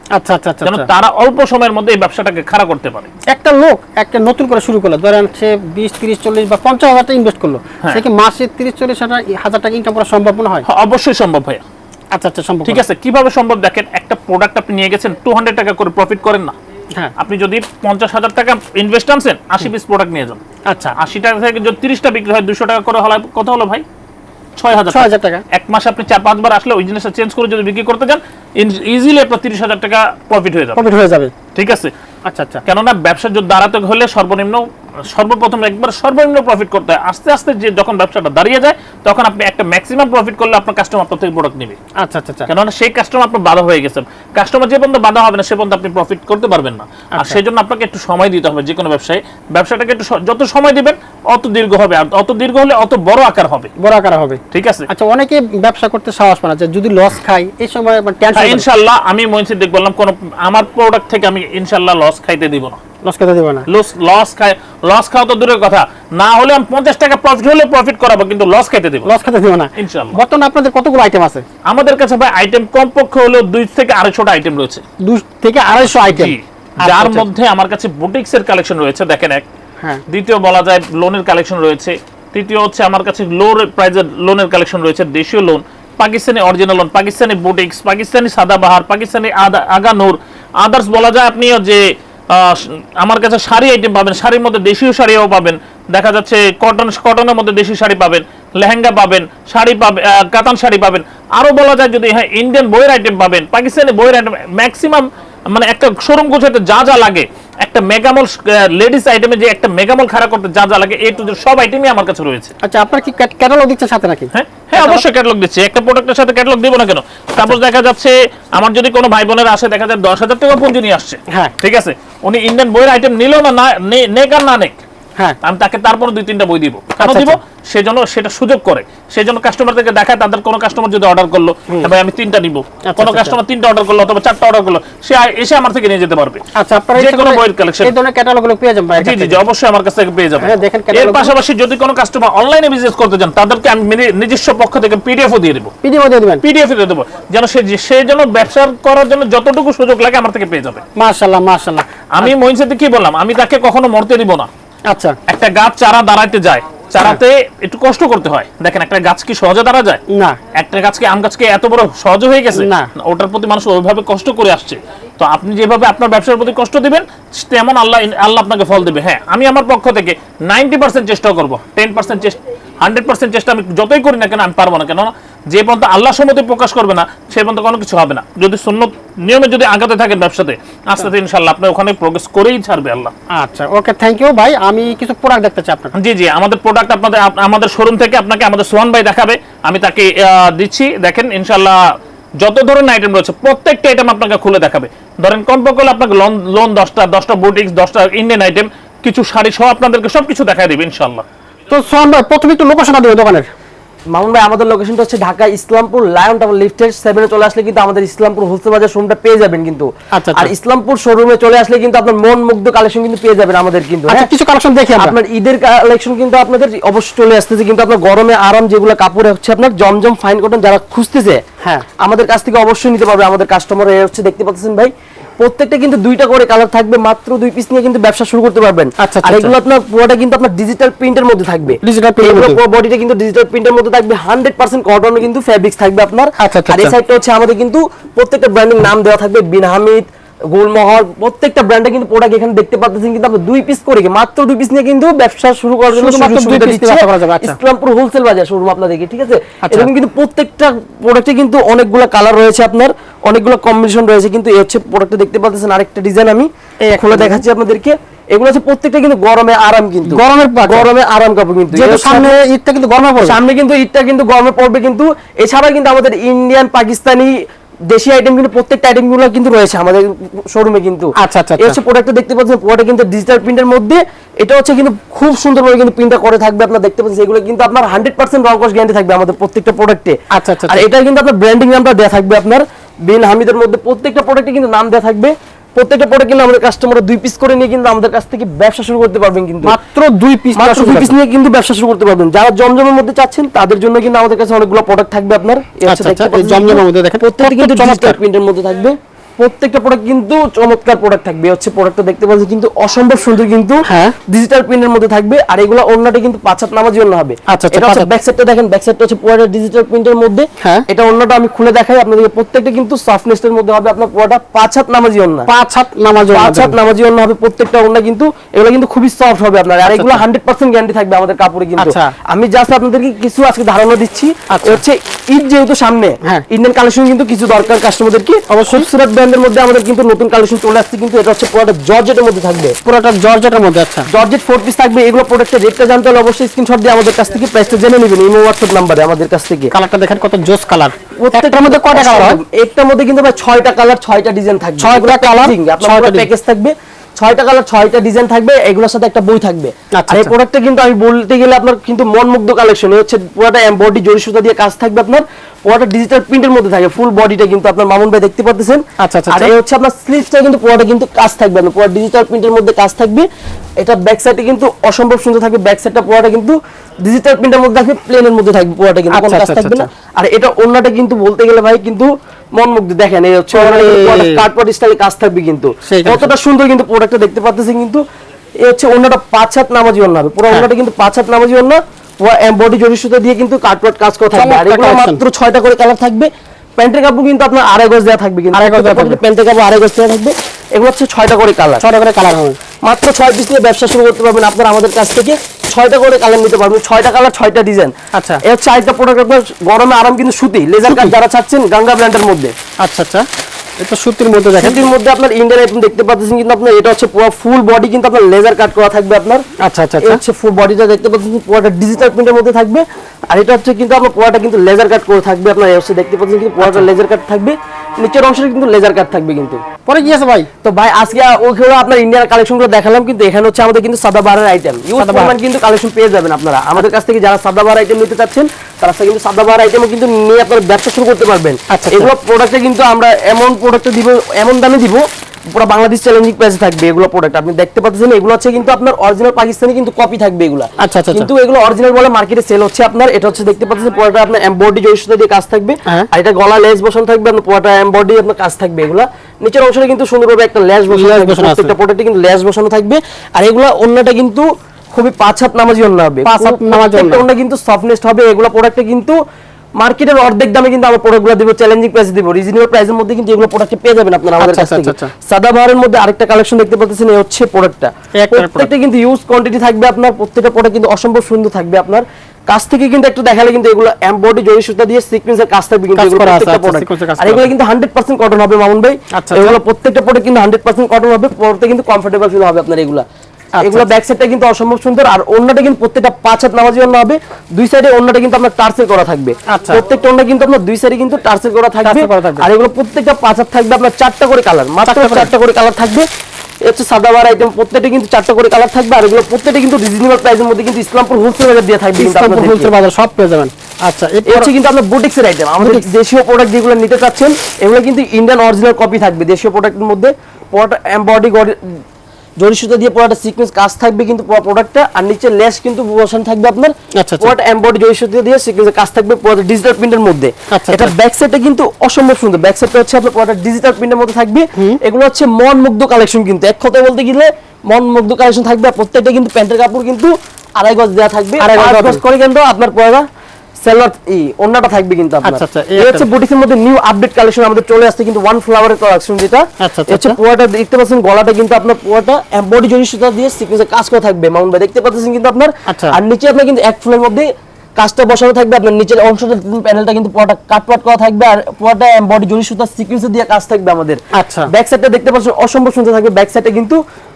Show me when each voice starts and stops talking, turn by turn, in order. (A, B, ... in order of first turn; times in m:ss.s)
0:00.2-0:00.9 A
0:00.6-0:03.1 B
0:03.3-0:10.6 A
0:10.6-0:11.6 B
0:12.1-0:12.8 A
0:12.6-0:16.5 B
0:17.2-0:20.4 B
0:20.7-0:21.0 A
0:21.0-0:23.8 B
0:24.6-0:30.8 B
0:24.9-0:25.4 A
0:30.8-0:31.3 A
0:31.5-0:31.9 B
0:32.3-0:32.6 A
0:32.6-0:41.8 B
0:42.0-0:42.5 A
0:42.5-0:53.7 B
0:53.8-0:58.6 A
0:54.5-0:54.8 B
0:58.3-1:02.8 B
1:03.0-1:03.6 A
1:03.7-1:09.1 B
1:09.0-1:11.4 A
1:09.8-1:10.2 B
1:11.7-1:14.8 B
1:15.0-1:17.2 A
1:16.1-1:19.4 B
1:20.1-1:31.8 B
1:32.3-1:52.5 B
1:52.6-1:55.0 A
1:54.3-2:04.8 B
2:05.4-2:16.4 B
2:07.0-2:07.4 A
2:12.8-2:13.4 A
2:16.6-2:19.4 A
2:17.0-2:17.9 B
2:19.0-2:25.7 B
2:20.4-2:21.3 A
2:25.8-2:26.4 A
2:26.4-2:30.8 B
2:31.0-2:32.3 A
2:32.1-2:34.5 B
2:34.9-2:35.2 A
2:35.3-2:40.0 B
2:40.1-2:40.4 A
2:40.6-3:03.1 B
2:42.5-2:42.9 A
3:03.3-3:05.9 A
3:05.9-3:11.8 B
3:12.4-3:21.2 B
3:21.7-3:23.4 A
3:24.1-3:34.3 C
3:30.1-3:30.5 A
3:34.1-3:35.1 A
3:35.0-3:41.4 C
3:42.0-4:22.4 C
3:49.0-3:49.5 A
3:51.8-3:52.6 A
3:56.4-3:56.9 A
4:05.9-4:07.6 A
4:09.6-4:09.9 A
4:16.8-4:17.4 A
4:20.1-4:20.9 A
4:21.7-4:23.4 A
4:23.2-4:27.3 C
4:27.9-4:40.2 C
4:31.2-4:31.8 A
4:40.3-4:40.8 A
4:40.7-4:49.7 C
4:49.6-4:51.1 A
4:50.6-5:15.5 C
4:55.8-4:58.2 A
5:03.9-5:04.1 A
5:07.5-5:08.1 A
5:15.5-5:16.7 A
5:16.2-5:32.7 C
5:19.8-5:20.2 A
5:21.8-5:22.1 A
5:24.5-5:24.8 A
5:28.5-5:28.8 A
5:32.8-5:34.1 A
5:34.1-5:39.7 C
5:39.7-5:42.4 A
5:41.2-6:03.2 C
5:44.8-5:46.3 A
5:50.0-5:50.3 A
5:59.0-5:59.5 A
6:03.8-6:18.0 C
6:09.1-6:09.9 A
6:13.5-6:14.4 A
6:15.9-6:16.3 A
6:18.6-6:31.8 C
6:24.4-6:25.2 A
6:28.5-6:29.2 A
6:31.8-6:32.6 A
6:32.8-6:37.9 C
6:38.1-6:38.4 A
6:38.4-6:42.5 C
6:40.9-6:41.1 A
6:42.8-6:43.3 A
6:43.8-6:44.8 A
6:44.6-6:49.4 C
6:49.6-6:50.2 A
6:50.0-6:59.6 C
6:59.8-7:00.5 A
7:00.6-7:39.2 C
7:05.0-7:05.3 A
7:11.7-7:12.1 A
7:20.8-7:21.3 A
7:30.9-7:31.7 A
7:36.2-7:37.2 A
7:39.8-8:03.0 C
7:44.4-7:45.1 A
7:48.2-7:48.7 A
7:56.0-7:57.5 A
7:59.2-7:59.6 A
8:03.6-8:03.9 A
8:03.6-8:16.0 C
8:09.5-8:09.8 A
8:11.8-8:12.4 A
8:14.8-8:15.3 A
8:16.6-8:22.7 C
8:22.0-8:24.5 A
8:24.3-8:31.6 C
8:32.4-8:53.0 C
8:37.0-8:37.3 A
8:40.5-8:40.9 A
8:51.4-8:52.0 A
8:53.6-9:07.3 C
8:55.2-8:56.1 A
8:59.6-9:00.2 A
9:05.7-9:06.0 A
9:07.8-9:16.8 C
9:14.1-9:14.5 A